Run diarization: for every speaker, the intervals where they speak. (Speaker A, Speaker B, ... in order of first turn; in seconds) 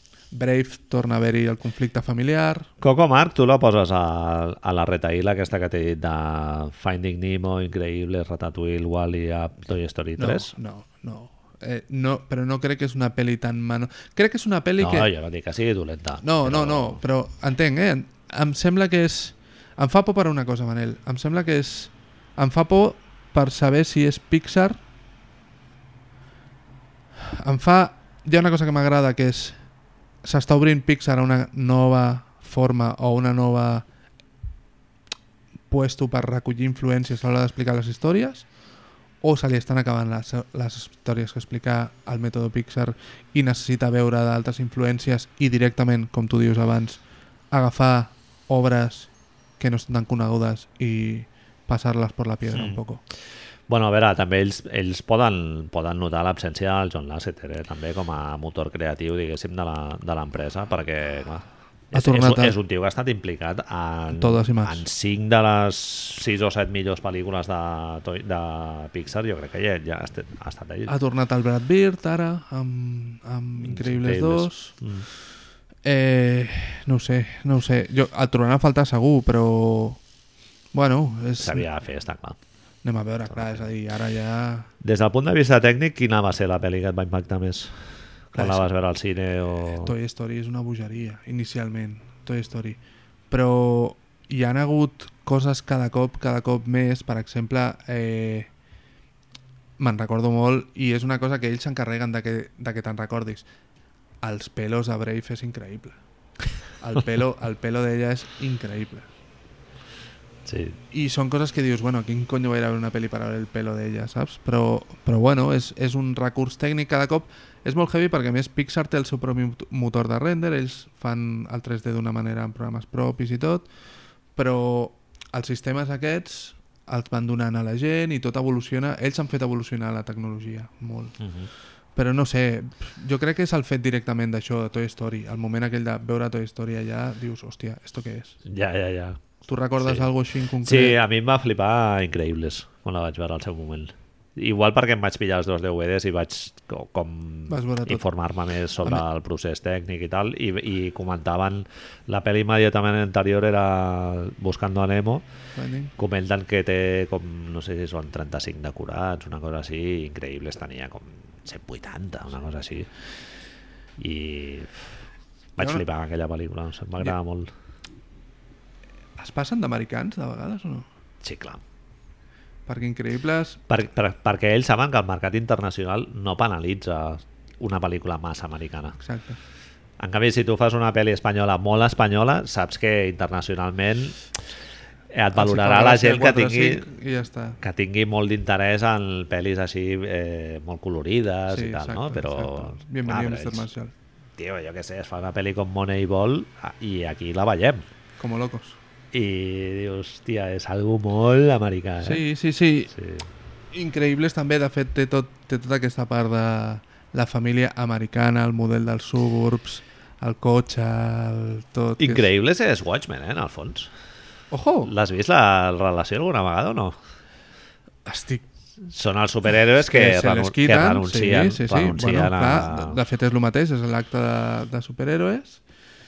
Speaker A: 0.3-2.7, 10.2-15.1, 16.2-24.8, 27.2-29.6, 30.2-33.9, 35.7-38.5, 39.2-53.0, 61.9-62.5, 64.1-64.8, 70.9-74.8, 75.8-80.0, 80.7-81.7, 82.8-84.7, 88.3-88.7, 89.7-92.8, 93.3-98.5, 99.8-103.5, 104.2-106.0, 106.8-109.1, 110.9-123.7, 124.3-131.2, 131.9-138.4, 139.4-141.0, 147.5-148.0, 155.6-155.9, 165.6-165.8, 169.2-170.9, 172.7-173.6, 179.0-179.4, 185.3-187.6, 191.5-193.9, 198.2-198.8, 202.0-202.9, 203.7-212.3, 214.5-214.9, 218.1-218.4, 219.8-225.6
Speaker B: 2.8-10.5, 14.8-17.0, 52.5-52.8, 53.7-70.9, 73.6-75.1, 81.4-82.4, 83.3-83.7, 84.8-89.9, 110.5-110.8, 131.2-131.5, 138.4-139.2, 139.8-140.1, 140.6-155.2, 156.0-162.9, 164.0-165.0, 165.6-167.5, 171.2-171.6, 173.7-179.0, 180.0-184.3, 185.1-186.9, 187.6-193.7, 194.4-197.8, 199.1-202.2, 202.9-203.3, 212.0-213.9, 214.8-217.0, 218.8-223.0